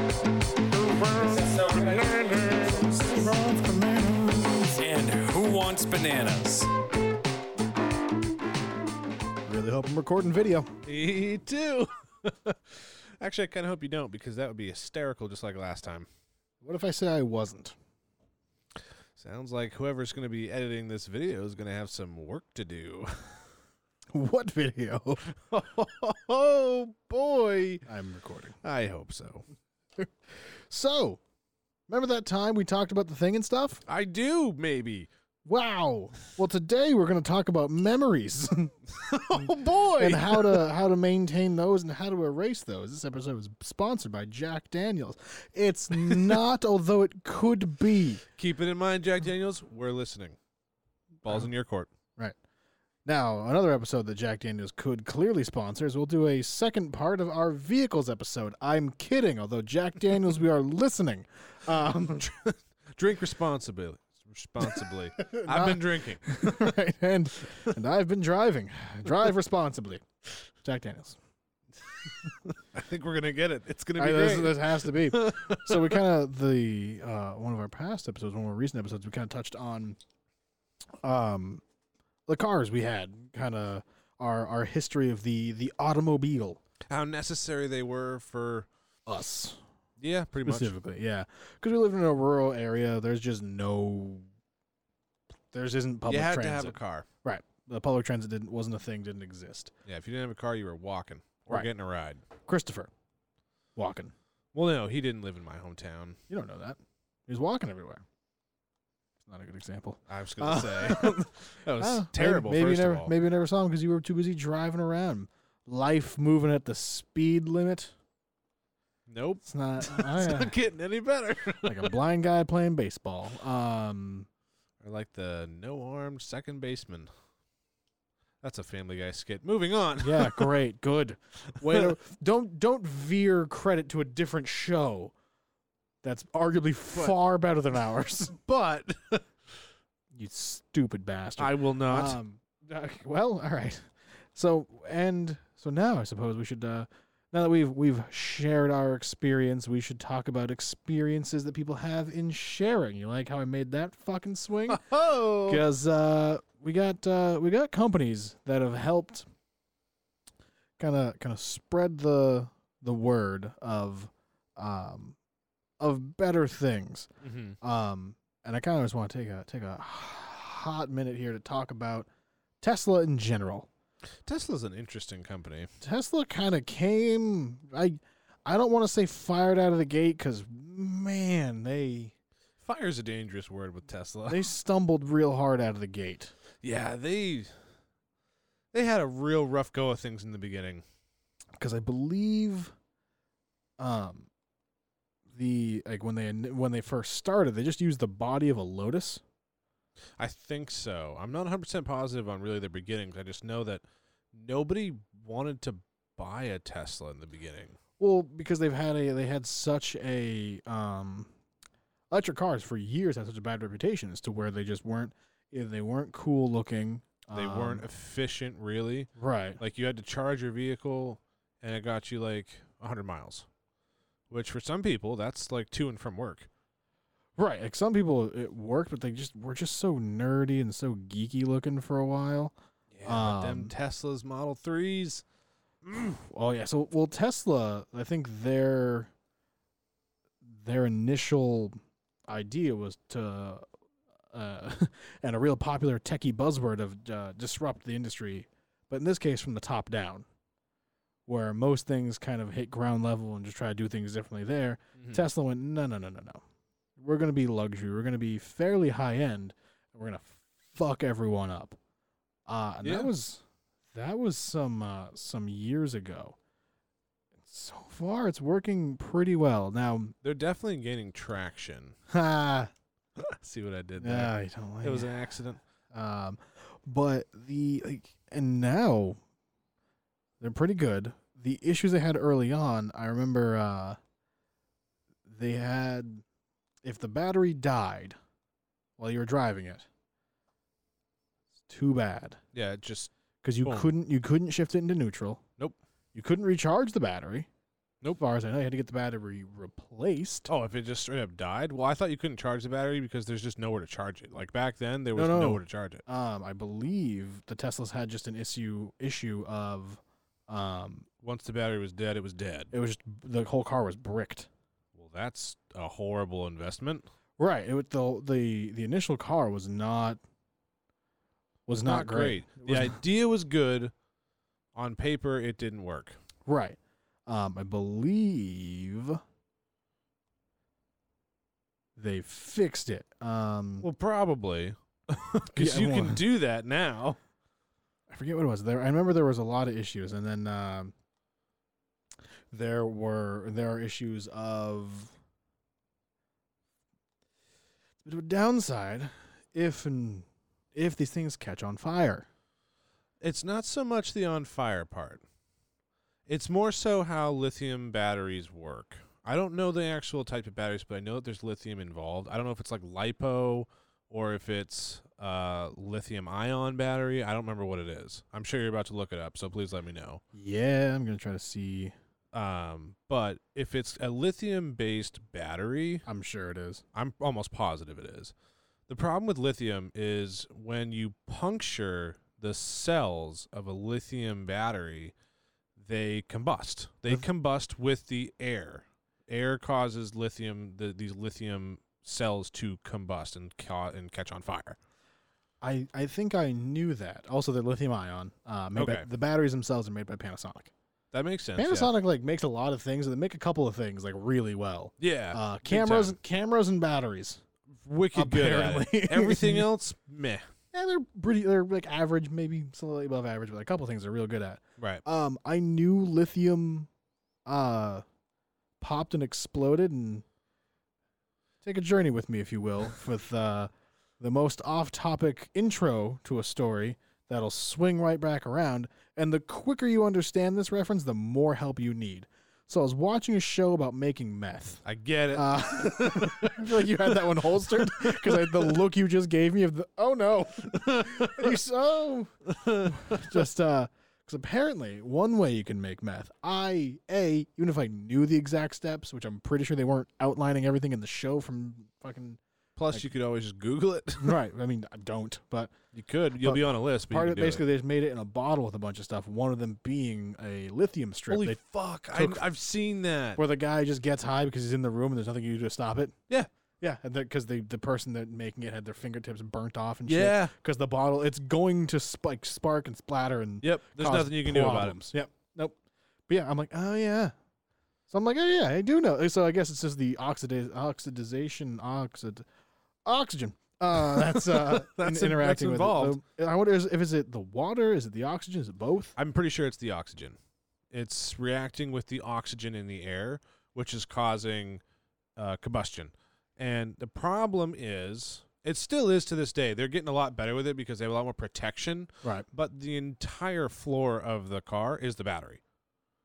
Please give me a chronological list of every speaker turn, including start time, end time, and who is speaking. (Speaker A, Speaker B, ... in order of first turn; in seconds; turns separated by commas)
Speaker A: 1.0-1.4, Speaker B: 1.1-3.0, Speaker A: 2.1-2.6, Speaker C: 3.0-4.8, Speaker B: 4.8-6.7, Speaker C: 9.4-10.8, Speaker A: 10.8-16.1, Speaker C: 16.6-17.8, Speaker A: 19.2-23.4, Speaker C: 24.1-25.3, Speaker A: 25.3-27.8, Speaker C: 27.9-28.6, Speaker A: 28.6-29.4, Speaker C: 30.4-31.2, Speaker C: 31.9-33.8, Speaker A: 33.9-35.1, Speaker C: 35.5-38.8, Speaker A: 39.0-40.7, Speaker C: 39.3-48.2, Speaker A: 46.0-46.4, Speaker A: 48.4-50.4, Speaker A: 51.2-51.9, Speaker C: 53.0-62.3, Speaker A: 61.8-66.7, Speaker C: 65.2-70.1, Speaker C: 70.6-71.2, Speaker A: 72.0-76.0, Speaker C: 74.0-80.0, Speaker C: 81.0-81.6, Speaker C: 82.3-86.6, Speaker A: 86.9-88.7, Speaker C: 89.1-89.6, Speaker A: 90.0-90.8, Speaker C: 90.4-94.3, Speaker C: 95.5-99.7, Speaker A: 96.1-97.1, Speaker A: 99.9-102.2, Speaker C: 102.5-102.9, Speaker C: 103.8-104.1, Speaker A: 104.5-106.2, Speaker C: 106.3-108.0, Speaker C: 109.3-117.9, Speaker A: 110.1-113.1, Speaker A: 119.1-122.0, Speaker C: 119.4-120.6, Speaker C: 121.7-124.3, Speaker A: 124.8-127.1, Speaker A: 128.4-130.6, Speaker C: 130.0-135.1, Speaker A: 131.6-131.9, Speaker C: 136.0-138.3, Speaker A: 138.3-139.3, Speaker C: 140.1-154.9, Speaker A: 141.4-142.2, Speaker A: 154.7-155.7, Speaker C: 155.4-159.3, Speaker C: 160.8-165.2, Speaker C: 165.8-167.1, Speaker A: 167.2-167.6, Speaker C: 167.6-172.1, Speaker C: 172.6-173.7, Speaker A: 174.2-175.7, Speaker C: 175.8-182.1, Speaker A: 182.6-184.4, Speaker C: 184.3-186.3, Speaker A: 186.6-187.5, Speaker A: 188.7-190.8, Speaker C: 191.6-192.7, Speaker C: 193.8-194.3, Speaker C: 195.3-199.2, Speaker A: 200.2-207.8, Speaker C: 208.0-211.3, Speaker C: 212.1-217.9, Speaker A: 217.3-223.5, Speaker C: 219.2-219.6, Speaker A: 224.3-226.5, Speaker C: 227.4-233.7, Speaker A: 232.9-235.2, Speaker A: 235.8-236.2, Speaker C: 236.0-239.1, Speaker C: 240.4-241.8, Speaker C: 242.3-243.7, Speaker C: 244.3-250.2, Speaker C: 251.3-256.4, Speaker C: 257.0-261.8, Speaker C: 262.5-266.4, Speaker A: 262.8-263.1, Speaker C: 267.4-270.1, Speaker A: 270.2-272.0, Speaker C: 272.1-272.7, Speaker A: 273.2-274.3, Speaker C: 274.0-275.1, Speaker A: 274.8-275.6, Speaker C: 275.9-279.2, Speaker C: 280.4-284.0, Speaker C: 285.3-286.2, Speaker C: 286.8-288.2, Speaker C: 289.0-289.9, Speaker C: 291.7-292.4, Speaker A: 292.5-293.1, Speaker C: 293.4-295.4, Speaker A: 293.6-293.9, Speaker C: 296.1-297.5, Speaker C: 298.2-300.5, Speaker A: 300.5-306.0, Speaker C: 305.1-311.1, Speaker A: 311.2-312.7, Speaker C: 312.7-314.5, Speaker A: 314.9-317.1, Speaker C: 317.4-320.2, Speaker C: 321.7-323.0, Speaker A: 321.8-323.9, Speaker A: 324.8-326.2, Speaker C: 326.5-329.2, Speaker C: 332.0-333.9, Speaker A: 333.8-337.2, Speaker C: 335.5-336.2, Speaker C: 338.1-340.9, Speaker C: 342.5-345.1, Speaker C: 348.0-352.3, Speaker A: 353.2-355.2, Speaker A: 356.3-370.2, Speaker C: 370.3-371.9, Speaker A: 372.3-376.1, Speaker C: 376.1-376.8, Speaker A: 376.9-378.3, Speaker A: 378.9-385.1, Speaker A: 385.8-394.8, Speaker C: 395.6-400.7, Speaker A: 398.8-399.1, Speaker A: 401.1-401.9, Speaker C: 401.6-407.4, Speaker A: 405.0-406.2, Speaker A: 407.8-410.5, Speaker C: 408.1-409.7, Speaker C: 410.7-416.9, Speaker A: 414.8-415.0, Speaker C: 417.5-418.1, Speaker C: 418.8-420.2, Speaker C: 421.6-452.4, Speaker A: 434.9-438.7, Speaker A: 440.7-441.6, Speaker A: 442.5-443.5, Speaker A: 452.8-454.4, Speaker C: 454.2-455.8, Speaker A: 455.9-457.6, Speaker C: 456.4-461.6, Speaker A: 461.3-463.4, Speaker C: 462.1-462.4, Speaker C: 463.4-466.2, Speaker C: 466.8-475.8, Speaker A: 470.1-470.5, Speaker A: 473.6-475.1, Speaker C: 476.3-477.4, Speaker C: 478.1-482.5, Speaker C: 483.1-489.2, Speaker A: 483.9-486.2, Speaker A: 489.2-490.4, Speaker A: 490.9-494.8, Speaker A: 495.4-505.6